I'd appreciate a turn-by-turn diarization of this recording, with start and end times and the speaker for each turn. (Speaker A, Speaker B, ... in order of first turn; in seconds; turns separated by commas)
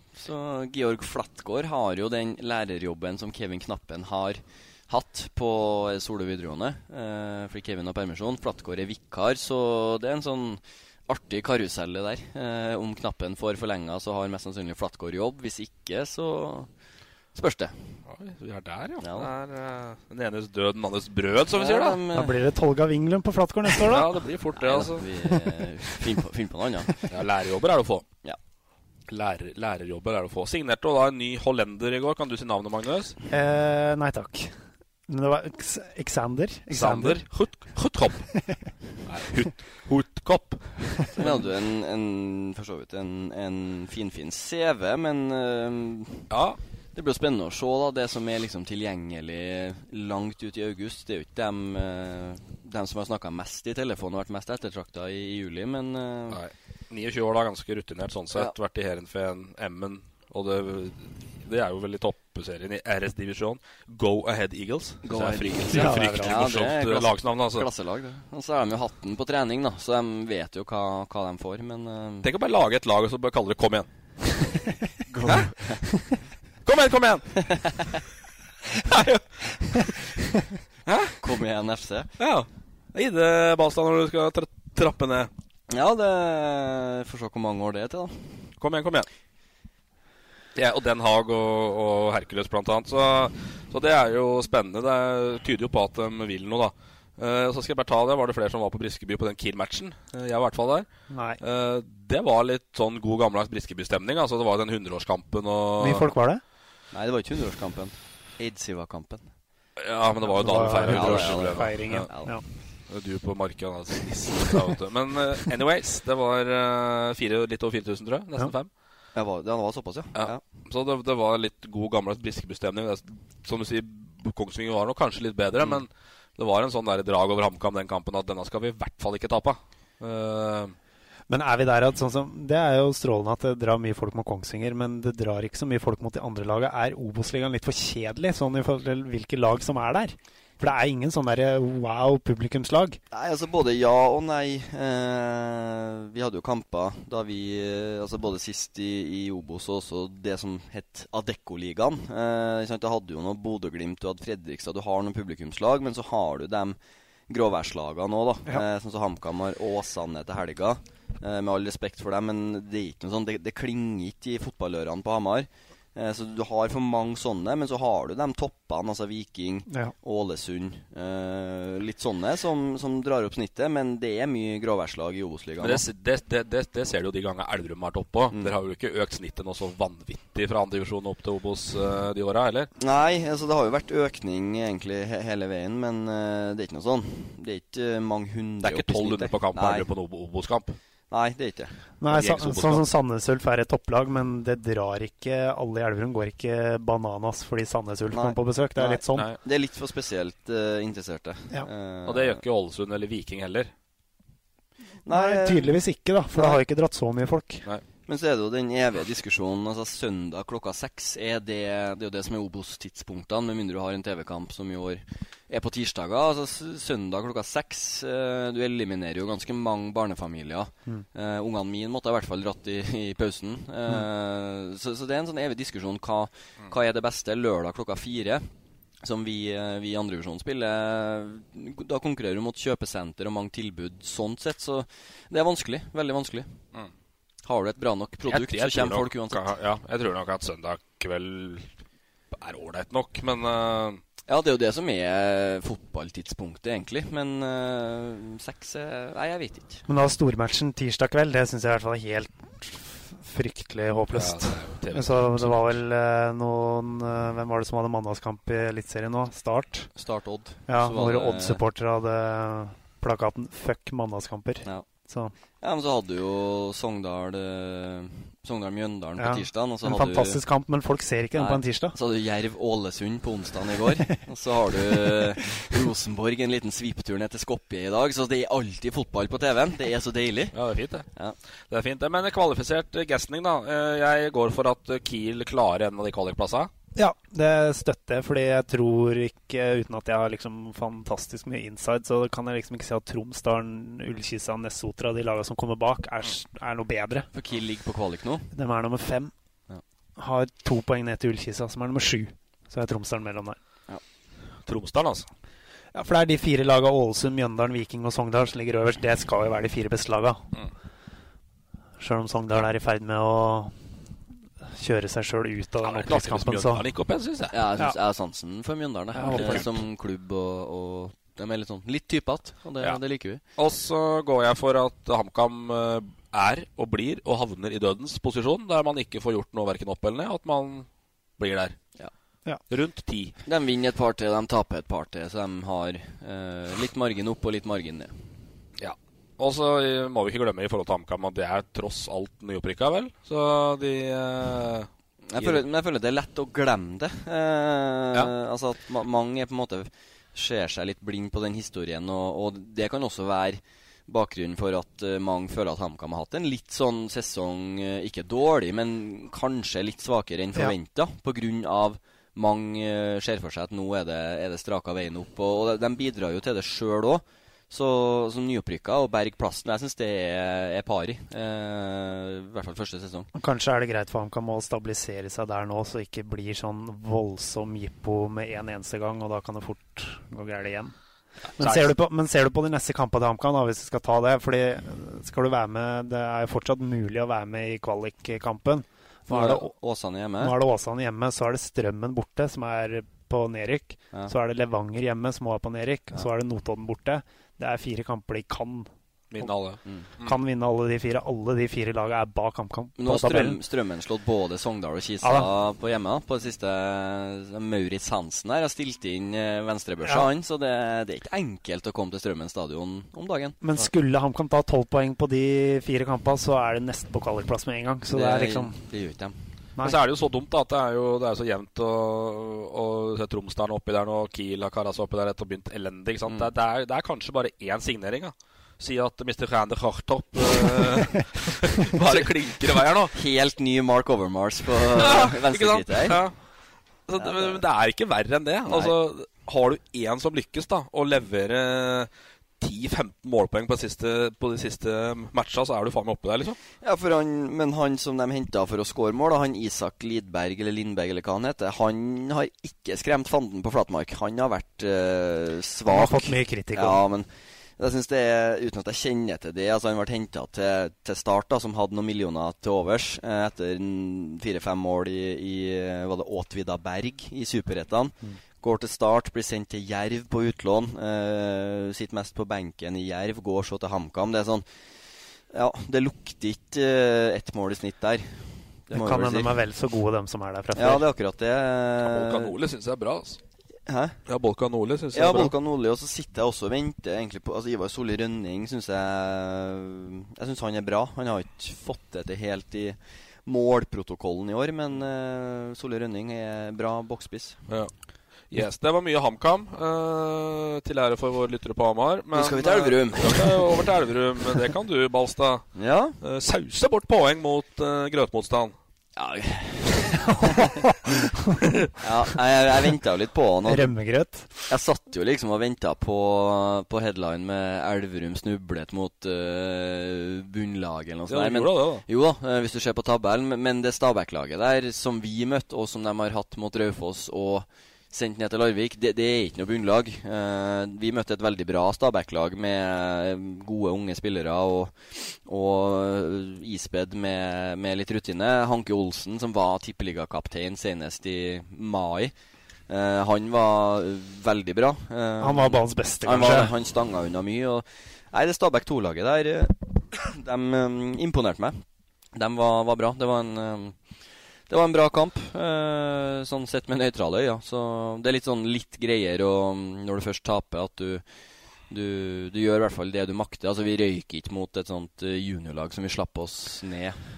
Speaker A: 0.1-16.7, Speaker A: 17.3-17.7, Speaker B: 18.1-22.0, Speaker A: 19.0-19.3, Speaker A: 21.5-22.4, Speaker C: 22.1-24.1, Speaker B: 23.8-25.1, Speaker A: 24.6-27.0, Speaker B: 27.1-28.1, Speaker B: 29.1-33.1, Speaker C: 33.3-34.5, Speaker C: 35.1-37.2, Speaker B: 36.7-38.3, Speaker B: 39.0-41.5, Speaker A: 41.2-46.3, Speaker B: 46.3-46.6, Speaker A: 47.0-56.4, Speaker B: 56.3-67.7, Speaker A: 65.0-72.3, Speaker C: 65.7-66.4, Speaker B: 72.2-73.9, Speaker A: 75.1-75.9, Speaker B: 76.7-77.5, Speaker B: 78.7-80.0, Speaker B: 80.9-81.2, Speaker A: 81.2-82.1, Speaker B: 82.2-85.3, Speaker A: 85.7-88.3, Speaker B: 88.6-89.1, Speaker B: 90.5-100.9, Speaker C: 101.1-101.4, Speaker B: 101.4-106.1, Speaker C: 105.8-106.4, Speaker A: 106.9-109.2, Speaker B: 109.8-112.1, Speaker C: 110.4-112.4, Speaker A: 110.7-112.4, Speaker B: 112.9-118.7, Speaker A: 119.2-120.4, Speaker B: 120.2-130.7, Speaker C: 131.3-143.0, Speaker A: 143.1-156.8, Speaker A: 157.3-175.8, Speaker C: 169.7-169.9, Speaker B: 175.6-182.7, Speaker A: 182.8-189.9, Speaker B: 188.6-190.8, Speaker A: 191.1-191.7, Speaker C: 192.0-199.3, Speaker B: 192.1-192.8, Speaker A: 198.1-202.4, Speaker B: 202.1-203.7, Speaker A: 205.1-205.8, Speaker C: 205.1-207.6, Speaker A: 208.1-228.5, Speaker A: 229.0-236.5, Speaker A: 237.4-239.5, Speaker B: 238.3-241.7, Speaker B: 242.3-244.0, Speaker A: 244.3-249.8, Speaker C: 249.9-259.9, Speaker B: 254.1-255.8, Speaker A: 260.0-261.6, Speaker C: 260.7-265.3, Speaker A: 265.6-270.4, Speaker C: 269.2-271.9, Speaker A: 271.4-280.6, Speaker B: 280.5-281.1, Speaker B: 281.7-286.7, Speaker C: 287.0-297.3, Speaker A: 297.3-298.5, Speaker C: 298.5-299.3, Speaker C: 300.2-303.6, Speaker B: 304.7-305.3, Speaker C: 305.9-310.4, Speaker C: 312.0-313.7, Speaker C: 314.7-316.8, Speaker B: 315.8-317.6, Speaker A: 317.5-323.4, Speaker C: 319.1-319.7, Speaker B: 319.3-319.7, Speaker B: 323.6-330.9, Speaker B: 331.4-331.8, Speaker B: 332.7-333.4, Speaker A: 333.5-338.1, Speaker B: 338.8-345.6, Speaker A: 345.3-373.3, Speaker C: 373.4-380.9, Speaker B: 381.6-381.9, Speaker C: 381.6-389.7, Speaker A: 389.3-390.6, Speaker C: 390.4-399.5, Speaker B: 399.3-400.4, Speaker C: 400.2-403.6, Speaker A: 403.0-413.6, Speaker C: 405.2-405.5, Speaker C: 413.6-418.7, Speaker A: 418.1-419.4, Speaker B: 419.8-433.2, Speaker A: 432.0-432.3, Speaker A: 433.1-436.2, Speaker B: 434.9-436.3, Speaker B: 437.1-442.1, Speaker A: 437.2-437.6, Speaker A: 438.7-438.9, Speaker B: 442.6-446.6, Speaker A: 446.8-474.7, Speaker C: 455.9-457.0, Speaker A: 475.5-479.5, Speaker C: 478.9-481.0, Speaker A: 480.8-482.5, Speaker B: 482.0-483.4, Speaker A: 483.9-484.2, Speaker B: 484.3-485.5, Speaker A: 485.1-497.6, Speaker B: 498.5-508.8, Speaker A: 502.4-503.7, Speaker A: 505.8-506.2, Speaker A: 509.2-510.8, Speaker A: 512.0-513.9, Speaker C: 513.7-514.7, Speaker A: 514.7-542.3, Speaker B: 521.3-522.0, Speaker A: 542.9-551.8, Speaker C: 545.4-546.7, Speaker A: 552.4-554.0, Speaker A: 554.7-561.2, Speaker A: 561.9-567.2